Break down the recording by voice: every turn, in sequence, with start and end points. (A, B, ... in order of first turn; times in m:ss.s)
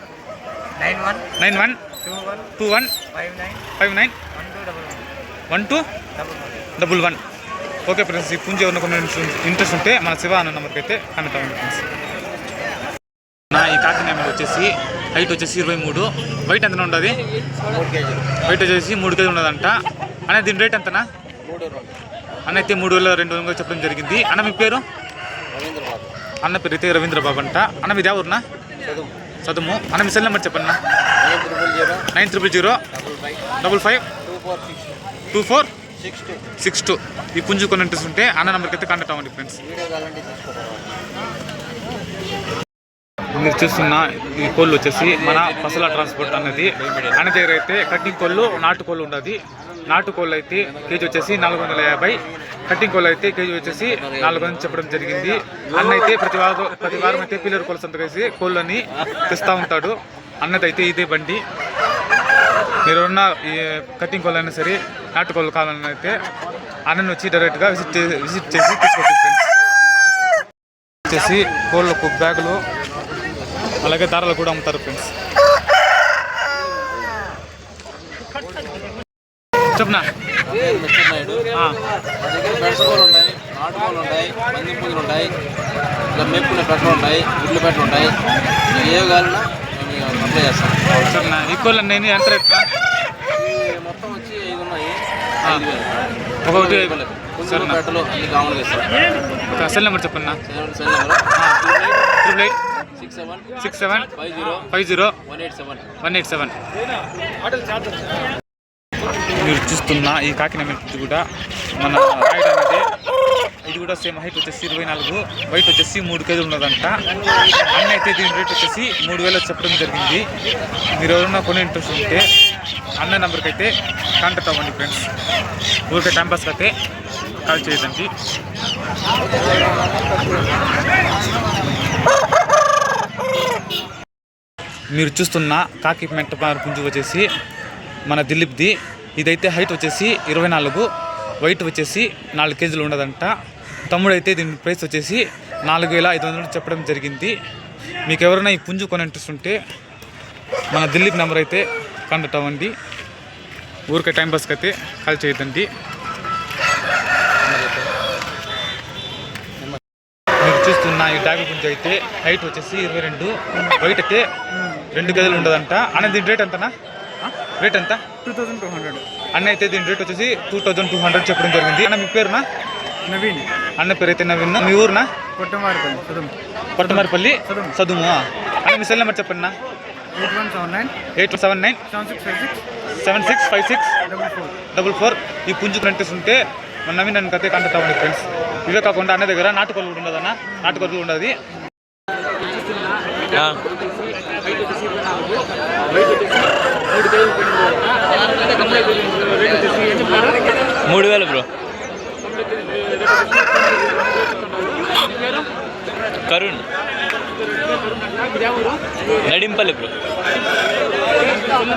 0:00.8-0:01.3 A
0:01.4-0:01.8 B
0:02.0-0:02.5 A
0:02.6-0:03.0 B
0:03.1-0:03.6 A
0:03.8-0:04.2 B
0:04.4-0:05.0 A
0:05.5-0:05.8 B
0:06.2-0:06.5 A
0:06.8-0:07.2 B
0:07.9-0:11.8 B
0:13.5-0:17.2 B
0:17.7-0:18.3 A
0:18.4-0:19.8 B
0:20.3-0:21.0 B
0:22.5-0:24.8 B
0:25.6-0:26.0 A
0:26.4-0:28.4 B
0:29.4-0:30.8 B
0:31.3-0:31.8 A
0:32.1-0:32.8 B
0:33.0-0:33.2 A
0:33.6-0:34.0 B
0:34.3-0:34.8 A
0:35.3-0:35.7 B
0:36.0-0:36.3 A
0:36.6-0:39.6 B
0:39.6-0:40.8 A
0:43.4-1:01.4 B
0:45.0-0:47.2 C
0:53.8-0:54.7 C
1:02.9-1:06.2 B
1:06.9-1:09.5 B
1:11.1-1:12.6 B
1:13.8-1:15.1 B
1:19.8-1:20.1 B
1:20.5-1:21.4 C
1:22.2-1:25.3 C
1:26.1-1:28.2 C
1:28.7-1:31.3 C
1:31.0-1:32.6 B
1:33.4-1:35.9 C
1:36.5-1:37.8 B
1:36.5-1:38.9 C
1:39.6-1:40.4 B
1:40.5-1:42.0 C
1:41.4-1:41.6 B
1:42.2-1:42.6 B
1:43.0-1:43.5 C
1:43.6-1:44.1 B
1:44.1-1:44.7 C
1:44.7-1:45.2 B
1:45.3-1:45.8 C
1:46.0-1:46.6 B
1:49.4-1:51.2 B
1:51.8-1:52.8 B
1:53.6-1:57.0 B
1:57.8-2:00.2 B
2:01.0-2:02.3 B
2:03.0-2:05.0 B
2:05.9-2:06.7 B
2:07.5-2:08.1 B
2:09.7-2:10.0 A
2:14.9-2:17.3 B
2:18.1-2:20.9 B
2:21.4-2:23.3 B
2:23.9-2:27.3 B
2:28.1-2:29.6 B
2:30.7-2:32.7 B
2:33.9-2:35.7 B
2:37.5-2:37.9 A
2:40.4-2:44.2 B
2:44.9-2:46.7 B
2:47.6-2:48.0 B
2:48.3-2:49.0 D
2:49.4-2:52.4 B
2:53.1-2:53.4 D
2:53.8-2:55.0 B
2:55.4-2:56.3 D
2:56.8-2:59.5 B
3:00.2-3:00.9 D
3:01.2-3:01.8 B
3:01.9-3:02.5 D
3:02.9-3:04.0 B
3:04.1-3:04.5 D
3:04.7-3:11.3 B
3:13.3-3:13.6 E
3:18.3-3:20.3 A
3:20.9-3:21.5 E
3:26.3-3:26.6 E
3:29.2-3:29.9 E